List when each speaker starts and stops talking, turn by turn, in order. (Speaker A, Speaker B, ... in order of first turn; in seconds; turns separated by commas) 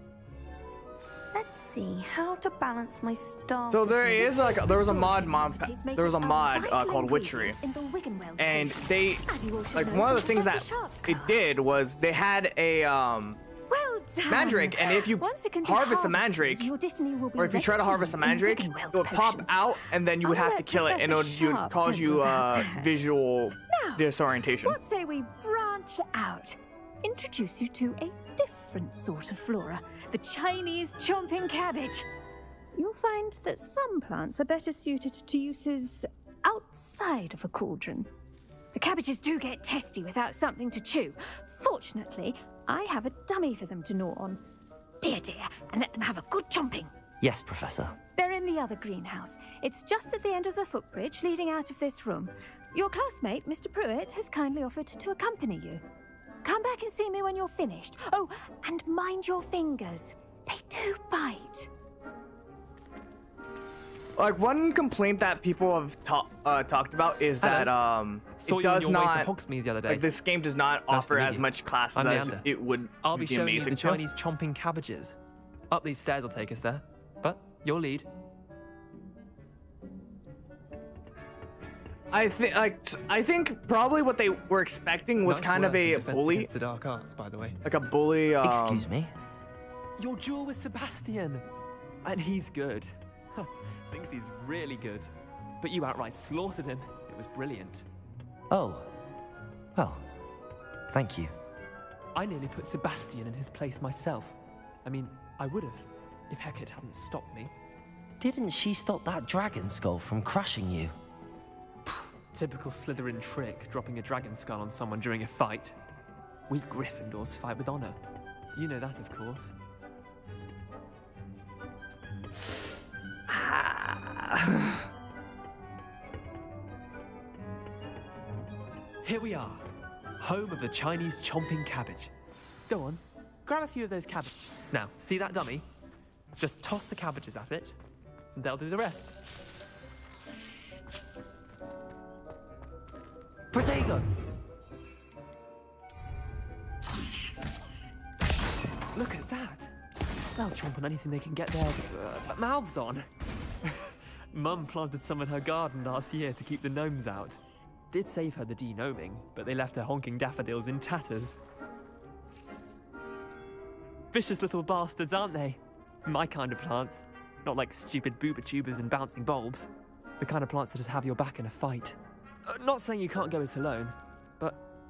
Speaker A: 1.3-4.4, Speaker B: 3.7-7.6, Speaker C: 4.0-11.5, Speaker B: 8.4-9.2, Speaker B: 9.7-13.4, Speaker C: 13.7-23.0, Speaker B: 14.2-16.7, Speaker B: 17.4-24.8, Speaker C: 23.7-24.1, Speaker C: 24.6-32.1, Speaker C: 32.7-38.1, Speaker C: 38.7-44.4, Speaker C: 45.0-46.9, Speaker D: 47.2-48.0, Speaker C: 48.1-55.8, Speaker C: 56.4-61.7, Speaker B: 64.2-69.3, Speaker E: 67.4-67.7, Speaker E: 68.4-70.1, Speaker B: 69.8-74.0, Speaker E: 70.9-72.5, Speaker E: 73.0-75.2, Speaker E: 75.7-78.1, Speaker B: 82.1-86.5, Speaker E: 85.2-87.6, Speaker B: 87.6-88.9, Speaker D: 88.4-89.1, Speaker E: 90.0-91.4, Speaker E: 92.0-95.1, Speaker E: 95.6-97.8, Speaker D: 98.5-98.9, Speaker D: 99.7-100.0, Speaker D: 100.9-101.3, Speaker E: 102.1-107.5, Speaker D: 108.2-110.9, Speaker E: 111.9-115.8, Speaker E: 116.5-118.0, Speaker E: 118.5-119.5, Speaker B: 123.3-124.8, Speaker E: 129.0-129.6, Speaker E: 130.2-132.1, Speaker E: 132.7-135.6, Speaker E: 136.4-137.8, Speaker E: 138.3-139.1, Speaker D: 143.5-144.1, Speaker E: 148.9-149.7, Speaker E: 150.3-153.1, Speaker E: 153.6-157.4, Speaker E: 157.9-161.3, Speaker E: 164.1-174.6